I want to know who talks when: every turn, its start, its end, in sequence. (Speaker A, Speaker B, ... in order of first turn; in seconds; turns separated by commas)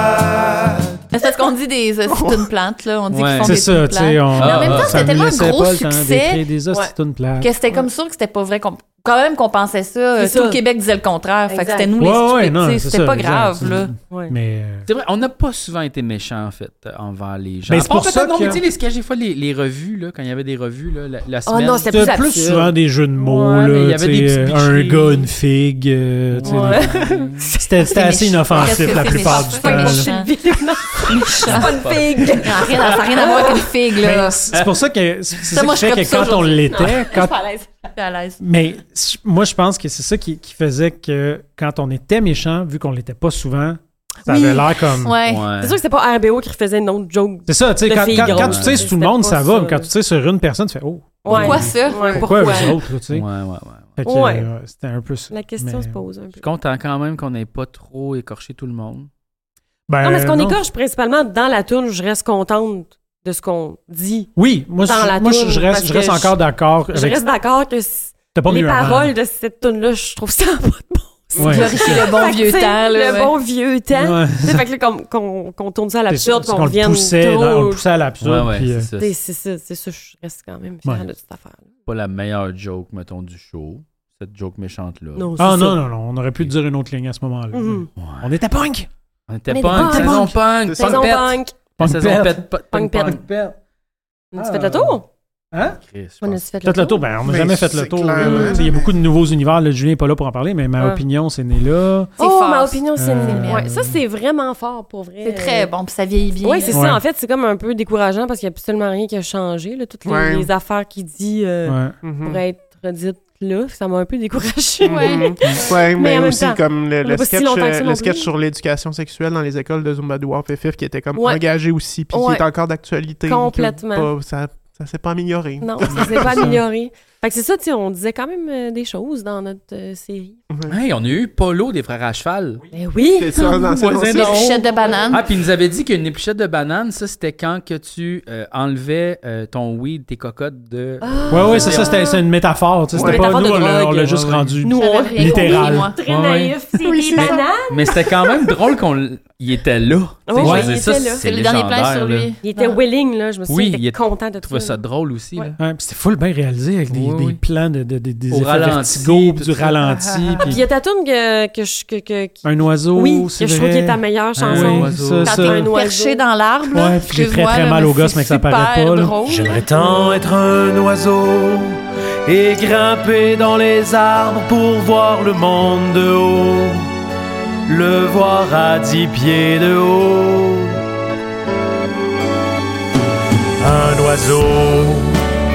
Speaker A: 1.1-6.4, Speaker B: 2.1-2.5, Speaker C: 3.1-3.6, Speaker D: 3.4-7.5, Speaker C: 4.4-5.1, Speaker A: 7.4-13.9, Speaker E: 10.2-10.6, Speaker E: 11.5-11.9, Speaker D: 12.0-14.9, Speaker E: 14.1-14.3, Speaker C: 14.9-22.2, Speaker D: 17.7-18.6, Speaker E: 21.4-22.7, Speaker D: 21.9-26.9, Speaker C: 23.2-25.3, Speaker C: 26.3-27.4, Speaker E: 26.4-33.7, Speaker D: 27.6-30.1, Speaker A: 27.9-30.4, Speaker A: 30.9-34.4, Speaker C: 31.4-33.0, Speaker D: 34.0-37.3, Speaker A: 35.5-37.0, Speaker E: 36.7-37.7, Speaker A: 38.0-38.4, Speaker D: 38.4-45.2, Speaker E: 44.2-44.8, Speaker A: 45.0-45.5, Speaker C: 45.2-45.8, Speaker E: 45.6-49.9, Speaker D: 47.5-53.2, Speaker C: 48.1-48.9, Speaker E: 51.2-52.6, Speaker A: 51.3-52.8, Speaker C: 53.1-54.0, Speaker D: 54.0-56.0, Speaker E: 54.0-54.5, Speaker E: 55.3-56.4, Speaker C: 56.3-59.1, Speaker D: 59.9-60.6, Speaker E: 60.0-64.3, Speaker D: 64.3-67.2, Speaker E: 64.8-77.8, Speaker D: 68.3-69.1, Speaker D: 71.3-72.1, Speaker A: 71.4-73.3, Speaker D: 73.9-74.6, Speaker D: 76.1-78.9, Speaker C: 78.2-79.1, Speaker E: 79.0-81.7, Speaker C: 81.8-85.4, Speaker E: 85.2-85.8, Speaker D: 85.4-88.9, Speaker E: 87.5-87.9, Speaker C: 88.0-88.3, Speaker C: 89.3-93.2, Speaker E: 89.5-91.5, Speaker B: 90.6-91.0, Speaker D: 91.8-93.5, Speaker E: 92.7-93.2, Speaker E: 94.3-95.0, Speaker D: 94.3-95.0, Speaker D: 95.5-95.8, Speaker C: 95.6-96.5, Speaker E: 96.2-97.2, Speaker D: 96.6-102.1, Speaker B: 97.2-99.0, Speaker E: 98.2-98.7, Speaker A: 102.2-103.7, Speaker E: 102.2-105.7, Speaker D: 103.0-104.0, Speaker A: 105.2-106.8, Speaker E: 106.4-118.3, Speaker D: 106.7-107.0, Speaker B: 110.0-110.5, Speaker D: 111.6-111.9, Speaker B: 112.0-112.4, Speaker B: 114.8-126.6, Speaker A: 114.9-115.3, Speaker E: 121.1-121.4, Speaker E: 122.1-122.5, Speaker E: 123.2-124.1, Speaker E: 125.6-130.4, Speaker B: 130.5-130.8, Speaker C: 130.7-132.6, Speaker E: 132.7-133.4, Speaker B: 133.1-134.6, Speaker A: 133.4-135.2, Speaker C: 133.4-142.0, Speaker E: 141.0-142.2, Speaker D: 141.3-145.9, Speaker E: 142.9-148.5, Speaker B: 142.9-143.3, Speaker A: 144.7-146.0, Speaker C: 146.1-146.6, Speaker C: 147.2-152.3, Speaker E: 150.3-151.2, Speaker D: 150.4-150.7, Speaker A: 151.2-152.8, Speaker E: 152.4-154.8, Speaker C: 153.5-155.6, Speaker D: 155.6-160.6, Speaker C: 156.9-157.4, Speaker C: 158.3-160.5, Speaker E: 160.4-166.2, Speaker D: 162.4-165.6, Speaker C: 164.4-165.3, Speaker A: 165.2-169.6, Speaker D: 166.7-169.2, Speaker F: 169.3-176.8, Speaker F: 177.7-180.8, Speaker F: 183.6-185.2